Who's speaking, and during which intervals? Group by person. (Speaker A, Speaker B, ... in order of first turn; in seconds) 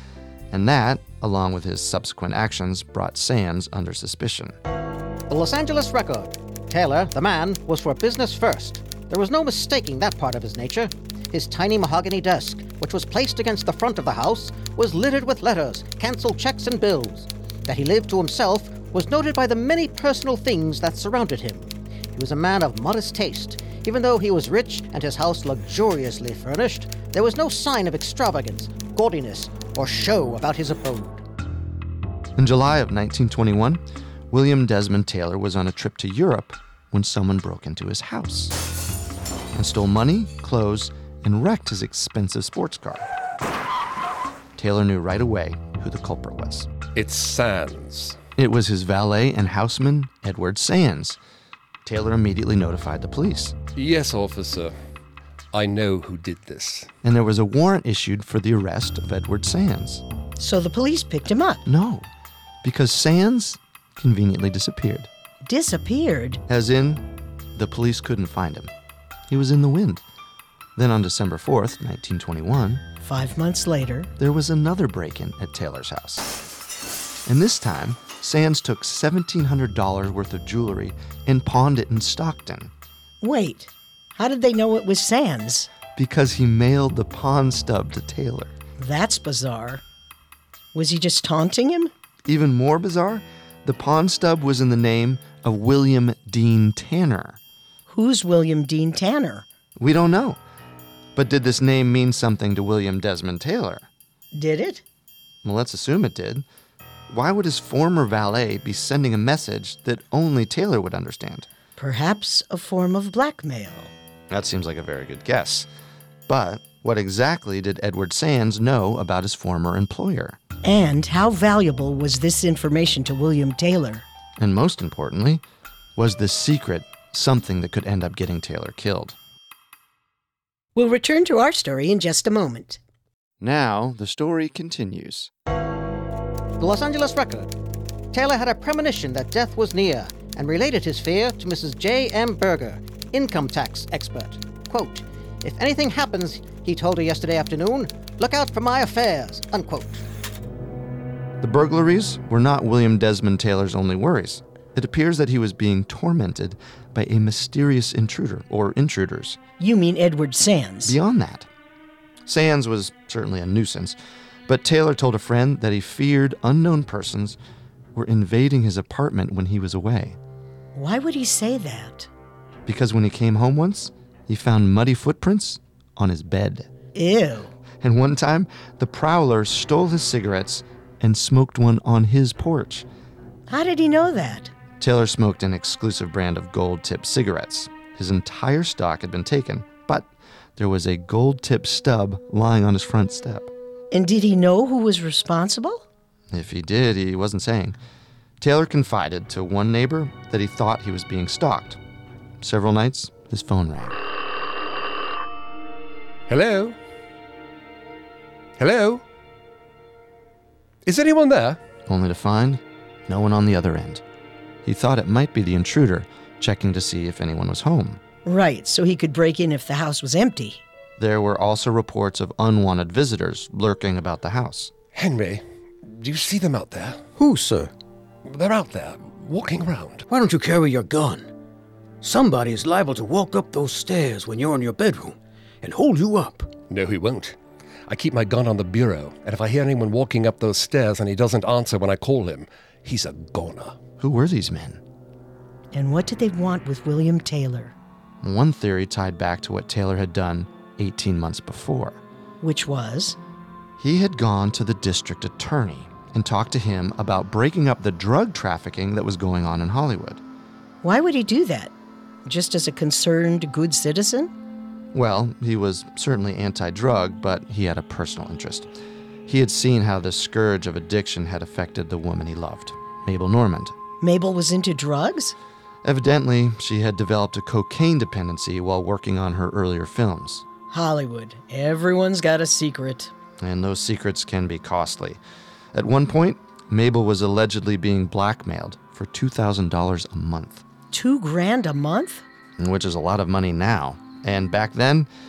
Speaker A: 0.5-4.6, 32.4-38.5, 39.5-43.1, 44.5-46.7, 48.4-51.2, 51.8-53.5, 57.0-60.0, 61.6-62.1, 62.6-65.1, 66.5-68.7, 69.3-70.0, 70.8-72.8, 74.2-76.3, 77.2-82.7, 86.0-88.5, 92.2-97.4, 99.8-100.4, 101.2-103.9, 105.4-106.4, 107.1-111.5, 114.3-115.7, 116.3-120.4, 124.4-125.4, 126.0-129.2, 133.4-135.3, 151.4-159.4, 160.8-161.5, 162.2-163.9, 164.5-167.4, 167.9-170.2, 172.7-176.7, 177.8-182.8, 184.8-193.5, 196.3-197.8, 198.4-201.8, 202.4-204.0, 211.9-214.0, 214.6-218.0, 221.0-224.7, 244.0-244.8, 248.2-252.0, 253.8-260.2, 264.9-268.7, 269.2-273.7, 275.8-280.4, 283.4-285.2, 285.7-290.6, 292.6-295.1
Speaker B: 5.3-31.2, 136.6-137.5, 138.1-150.0
Speaker C: 46.9-48.2, 53.7-54.7, 55.5-56.9, 206.3-206.8, 208.6-209.0, 210.8-211.6, 224.9-227.0, 228.2-230.0, 236.7-237.3, 237.9-243.8
Speaker D: 60.4-61.6, 65.4-66.4, 73.0-74.1, 83.2-85.7, 88.8-89.8, 90.7-91.9, 97.9-99.5, 104.3-104.8, 111.8-113.9, 120.6-124.0, 130.7-132.8, 159.6-161.0, 170.7-172.1, 176.9-177.5, 183.5-184.5, 193.9-195.8, 218.2-220.6, 245.7-247.7, 252.4-253.2, 260.8-261.7, 262.2-264.3, 274.0-275.3, 280.7-283.1, 290.9-292.2
Speaker E: 227.2-227.7, 230.1-231.3, 232.0-236.5